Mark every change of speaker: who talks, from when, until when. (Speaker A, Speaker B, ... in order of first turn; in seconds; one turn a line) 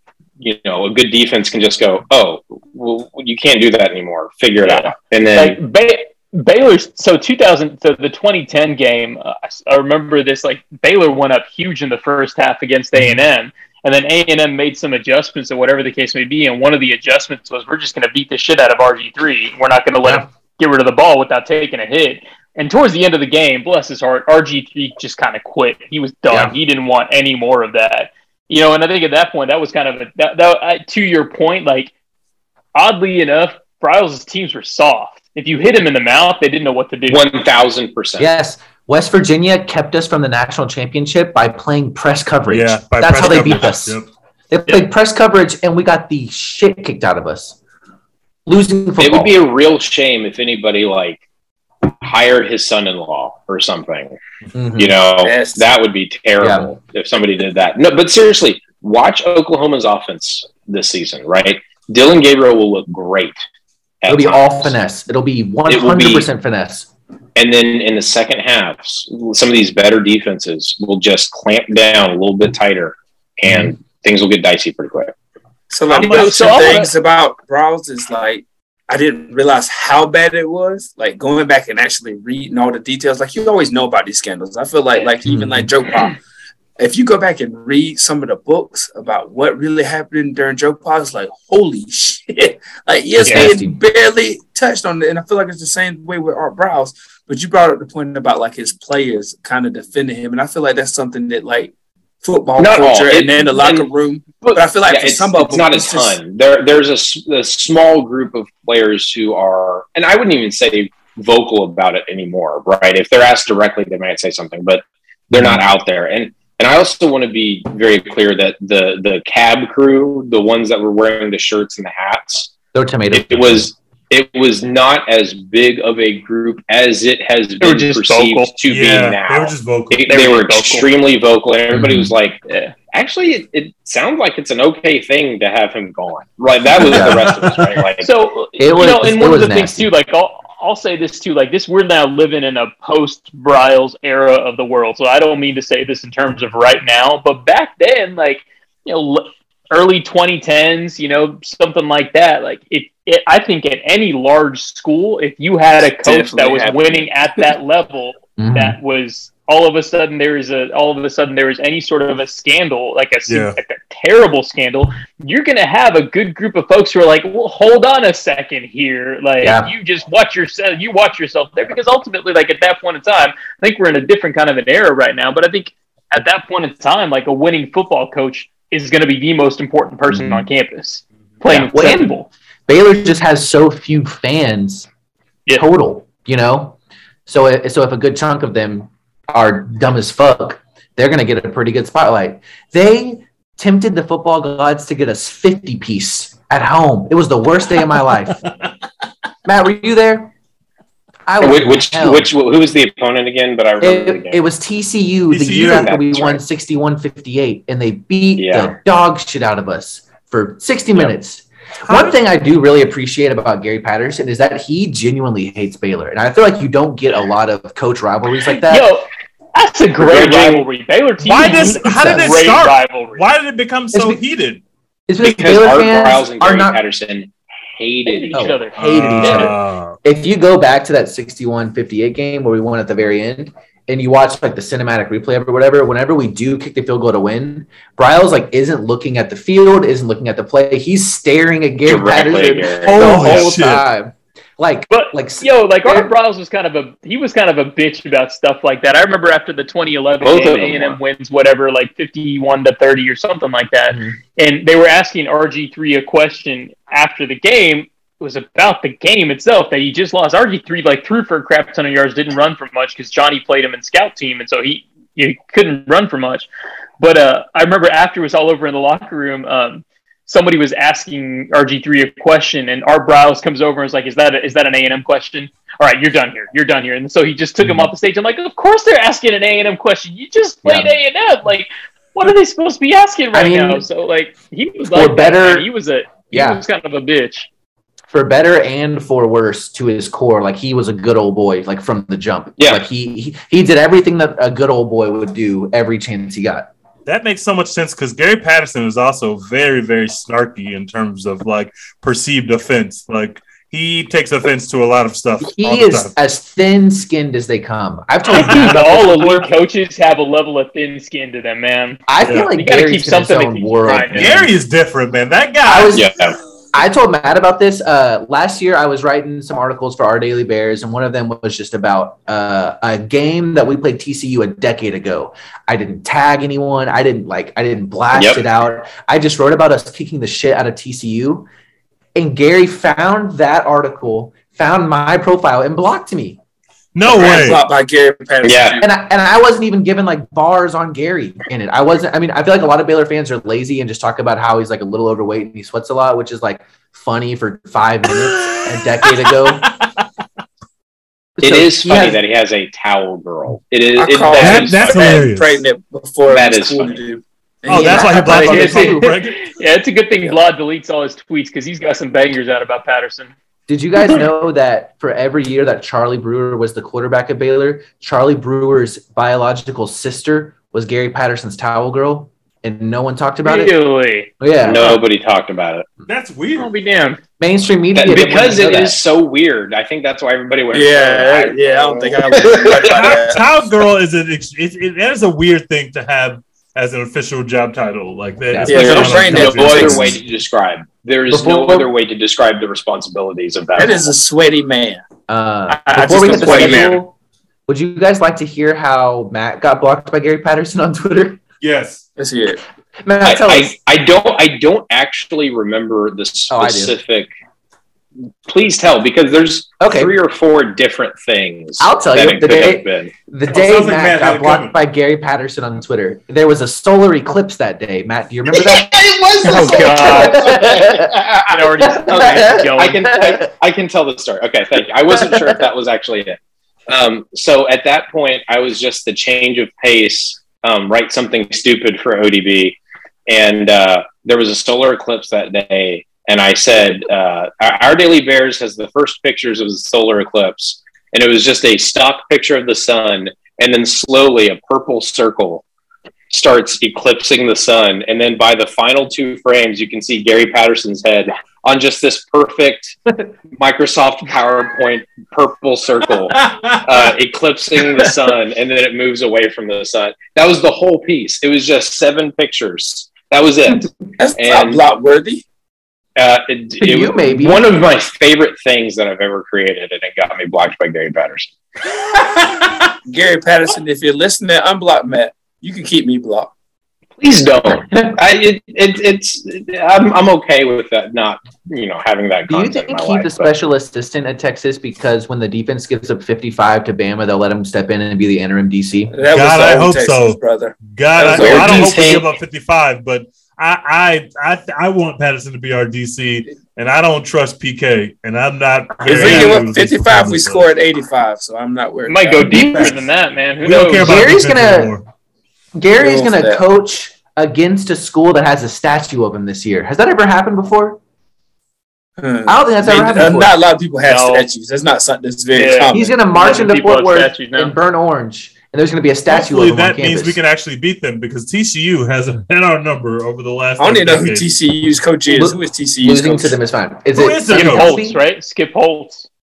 Speaker A: 0.4-5.6
Speaker B: 4.6-31.9
Speaker B: 32.8-37.2
Speaker A: 37.1-38.3
Speaker C: 38.2-44.0
Speaker D: 42.5-44.1
Speaker C: 44.5-47.6
Speaker C: 48.5-49.4
Speaker A: 49.0-51.2
Speaker A: 51.8-54.2
Speaker C: 54.5-55.0
Speaker A: 54.8-63.4
Speaker E: 55.2-55.7
Speaker C: 56.4-56.7
Speaker A: 64.0-64.7
Speaker C: 64.1-66.9
Speaker A: 65.7-66.3
Speaker A: 67.4-75.1
Speaker C: 73.5-73.7
Speaker E: 75.7-86.2
Speaker D: 75.9-76.8
Speaker B: 75.9-76.9
Speaker C: 85.3-85.7
Speaker E: 86.8-106.2
Speaker C: 93.2-93.8
Speaker A: 102.6-103.9
Speaker A: 104.4-122.5
Speaker C: 115.3-115.6
Speaker C: 122.7-123.7
Speaker A: 123.1-132.4
Speaker B: 127.6-128.5
Speaker D: 128.7-130.1
Speaker B: 130.1-130.9
Speaker C: 131.7-132.1
Speaker B: 132.5-132.7
Speaker A: 132.9-138.1
Speaker C: 136.8-137.2
Speaker D: 136.9-137.7
Speaker B: 138.0-182.3
Speaker C: 138.6-139.9
Speaker E: 156.0-157.1
Speaker C: 158.4-158.8
Speaker D: 163.3-163.6
Speaker C: 169.4-169.7
Speaker C: 180.1-180.4
Speaker C: 181.5-184.9
Speaker C: 185.6-198.4
Speaker C: 199.4-200.3
Speaker C: 201.3-202.3
Speaker A: 201.4-204.4
Speaker C: 203.8-218.9
Speaker D: 205.3-205.9
Speaker A: 205.6-206.4
Speaker A: 208.4-208.8
Speaker D: 211.8-212.2
Speaker B: 218.7-223.2
Speaker A: 220.0-220.7
Speaker D: 221.2-224.6
Speaker C: 221.4-222.3
Speaker C: 223.9-224.2
Speaker C: 225.1-226.8
Speaker A: 225.2-228.4
Speaker B: 228.1-229.5
Speaker C: 228.3-246.1
Speaker D: 228.8-230.0
Speaker A: 241.8-243.5
Speaker D: 242.8-243.9
Speaker B: 244.9-266.5
Speaker A: 250.2-251.0
Speaker C: 253.9-254.2
Speaker B: 267.0-287.5
Speaker C: 277.6-277.9
Speaker C: 280.6-280.9
Speaker C: 283.3-283.9
Speaker C: 284.8-285.7
Speaker C: 286.3-286.6
Speaker C: 288.1-296.7
Speaker D: 297.1-306.1
Speaker C: 305.4-309.5
Speaker B: 308.3-312.0
Speaker C: 312.1-314.5
Speaker D: 312.2-312.5
Speaker B: 312.6-314.4
Speaker D: 314.1-316.0
Speaker C: 315.6-316.1
Speaker A: 315.9-316.4
Speaker C: 316.7-331.5
Speaker A: 328.1-328.4
Speaker C: 332.1-336.4
Speaker D: 336.9-337.6
Speaker E: 337.1-338.9
Speaker A: 338.4-338.8
Speaker C: 338.8-349.7
Speaker D: 348.1-349.9
Speaker C: 351.4-352.2
Speaker A: 351.4-355.2
Speaker E: 354.0-358.7
Speaker D: 354.4-355.6
Speaker A: 356.3-357.0
Speaker D: 357.7-359.4
Speaker C: 357.7-359.2
Speaker B: 358.4-363.3
Speaker C: 363.7-373.8
Speaker B: 373.4-375.0
Speaker C: 374.4-374.9
Speaker A: 374.6-375.9
Speaker D: 376.1-376.7
Speaker B: 376.6-377.2
Speaker C: 377.4-379.0
Speaker A: 377.9-383.2
Speaker E: 380.7-383.4
Speaker D: 382.8-390.2
Speaker C: 388.5-390.2
Speaker E: 388.7-390.1
Speaker A: 388.7-394.1
Speaker C: 391.3-391.9
Speaker E: 393.8-395.0
Speaker C: 395.3-397.1
Speaker E: 395.7-397.0
Speaker A: 396.3-397.0
Speaker C: 397.7-401.4
Speaker D: 401.6-402.1
Speaker E: 402.2-402.6
Speaker C: 403.1-403.8
Speaker A: 403.2-407.3
Speaker C: 406.5-407.0
Speaker A: 408.5-413.1
Speaker C: 409.8-410.1
Speaker C: 411.8-418.9
Speaker D: 413.5-414.8
Speaker A: 418.5-426.4
Speaker E: 419.4-420.1
Speaker B: 419.5-420.6
Speaker C: 419.9-421.2
Speaker B: 421.5-423.0
Speaker C: 421.8-423.5
Speaker C: 425.1-425.6
Speaker A: 426.9-445.6
Speaker A: 446.3-453.0
Speaker A: 453.6-464.8
Speaker D: 456.4-456.8
Speaker E: 464.2-465.4
Speaker A: 466.2-471.5
Speaker C: 466.8-467.6
Speaker D: 472.4-472.7
Speaker E: 473.1-476.5
Speaker A: 477.2-483.5
Speaker C: 482.5-489.1
Speaker E: 489.1-492.2
Speaker D: 489.3-500.7
Speaker A: 491.3-492.3
Speaker E: 499.0-502.9
Speaker B: 502.1-504.3
Speaker C: 502.5-502.9
Speaker D: 502.5-503.1
Speaker D: 503.6-505.1
Speaker C: 504.0-504.9
Speaker C: 505.8-511.0
Speaker E: 506.0-506.6
Speaker E: 512.2-516.2
Speaker C: 512.5-513.5
Speaker B: 514.1-514.5
Speaker B: 515.5-517.8
Speaker C: 515.9-520.4
Speaker D: 519.3-524.5
Speaker E: 523.8-526.5
Speaker C: 525.3-528.2
Speaker D: 527.1-527.9
Speaker B: 527.5-529.3